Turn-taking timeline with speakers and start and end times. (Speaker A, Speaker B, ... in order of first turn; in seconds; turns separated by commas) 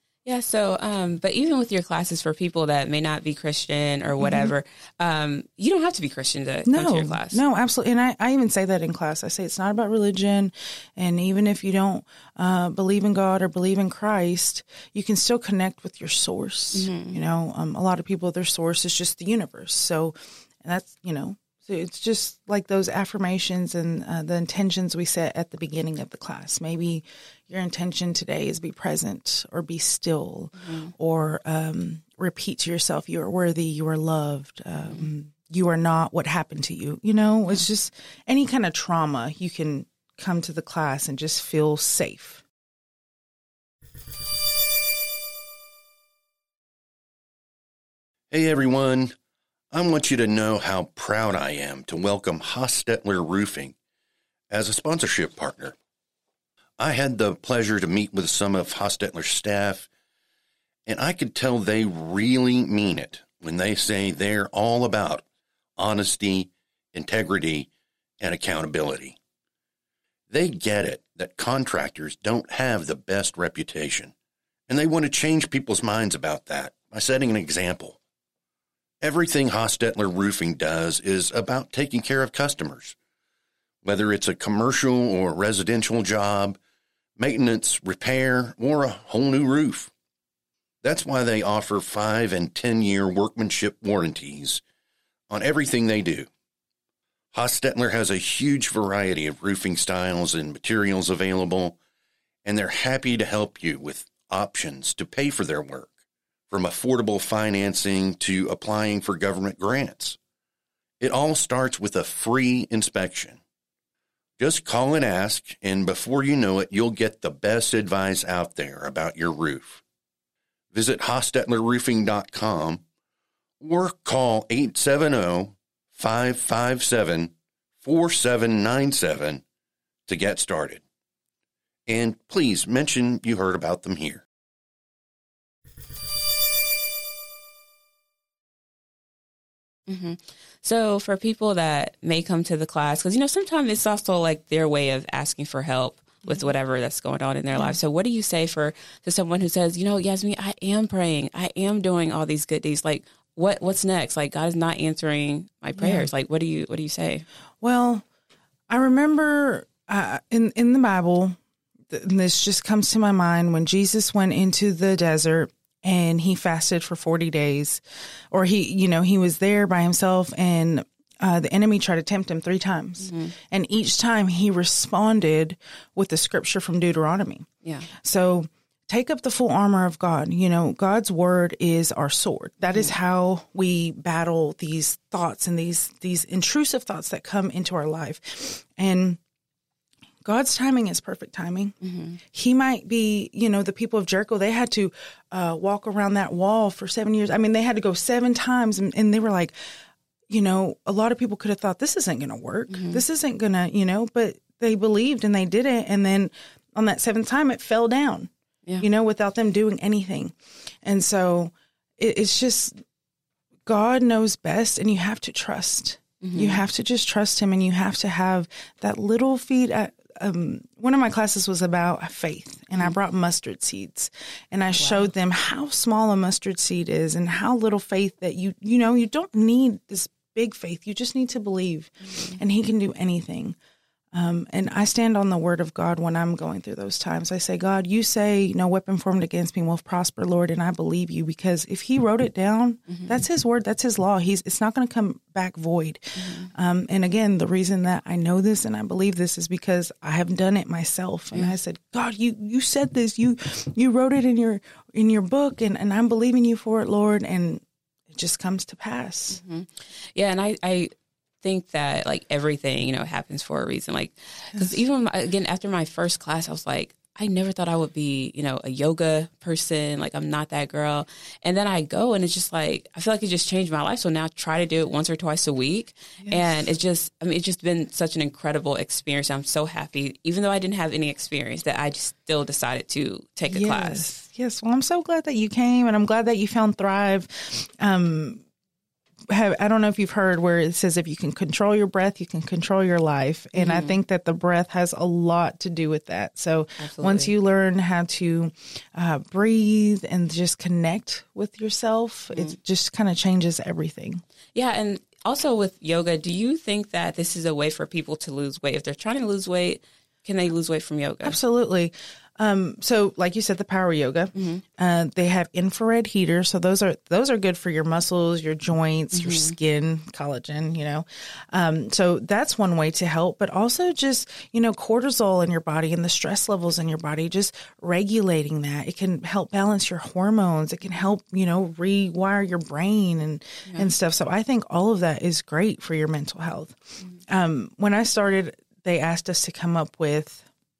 Speaker A: 0.2-7.4, Speaker B: 4.2-4.5, Speaker B: 6.7-42.4, Speaker A: 16.7-17.2, Speaker A: 30.6-30.9, Speaker C: 48.3-49.1, Speaker C: 49.7-53.7, Speaker C: 54.5-55.7, Speaker C: 56.8-59.9, Speaker C: 60.9-65.2, Speaker C: 65.8-69.2, Speaker C: 70.3-74.1, Speaker C: 74.7-78.0, Speaker C: 79.0-83.0, Speaker C: 83.8-86.6, Speaker C: 87.2-89.9, Speaker C: 90.8-94.6, Speaker C: 95.3-96.3, Speaker C: 97.3-101.8, Speaker C: 102.4-105.9, Speaker C: 106.5-110.2, Speaker C: 111.0-113.4, Speaker C: 114.4-119.8, Speaker C: 120.7-122.8, Speaker C: 123.6-129.4, Speaker C: 130.1-130.8, Speaker C: 131.9-134.2, Speaker A: 139.9-157.2, Speaker B: 155.8-156.1, Speaker B: 157.6-158.0, Speaker B: 158.7-161.4, Speaker B: 161.9-189.2, Speaker A: 173.0-173.3, Speaker A: 182.7-182.9, Speaker B: 190.2-191.8, Speaker A: 191.8-192.2, Speaker B: 192.3-199.5, Speaker B: 200.3-212.8, Speaker A: 202.7-203.0, Speaker B: 213.7-233.6, Speaker A: 216.2-216.6, Speaker A: 224.8-225.1, Speaker A: 232.1-232.4, Speaker B: 234.1-259.4, Speaker A: 242.9-243.1, Speaker A: 246.2-246.5, Speaker A: 259.3-260.9, Speaker A: 261.4-284.1, Speaker B: 264.5-264.8, Speaker B: 276.2-276.6, Speaker B: 283.5-288.4, Speaker B: 289.3-304.2, Speaker A: 293.5-294.0, Speaker A: 296.8-297.3, Speaker A: 304.5-311.4, Speaker B: 311.2-340.4, Speaker A: 314.3-314.6, Speaker A: 319.1-319.5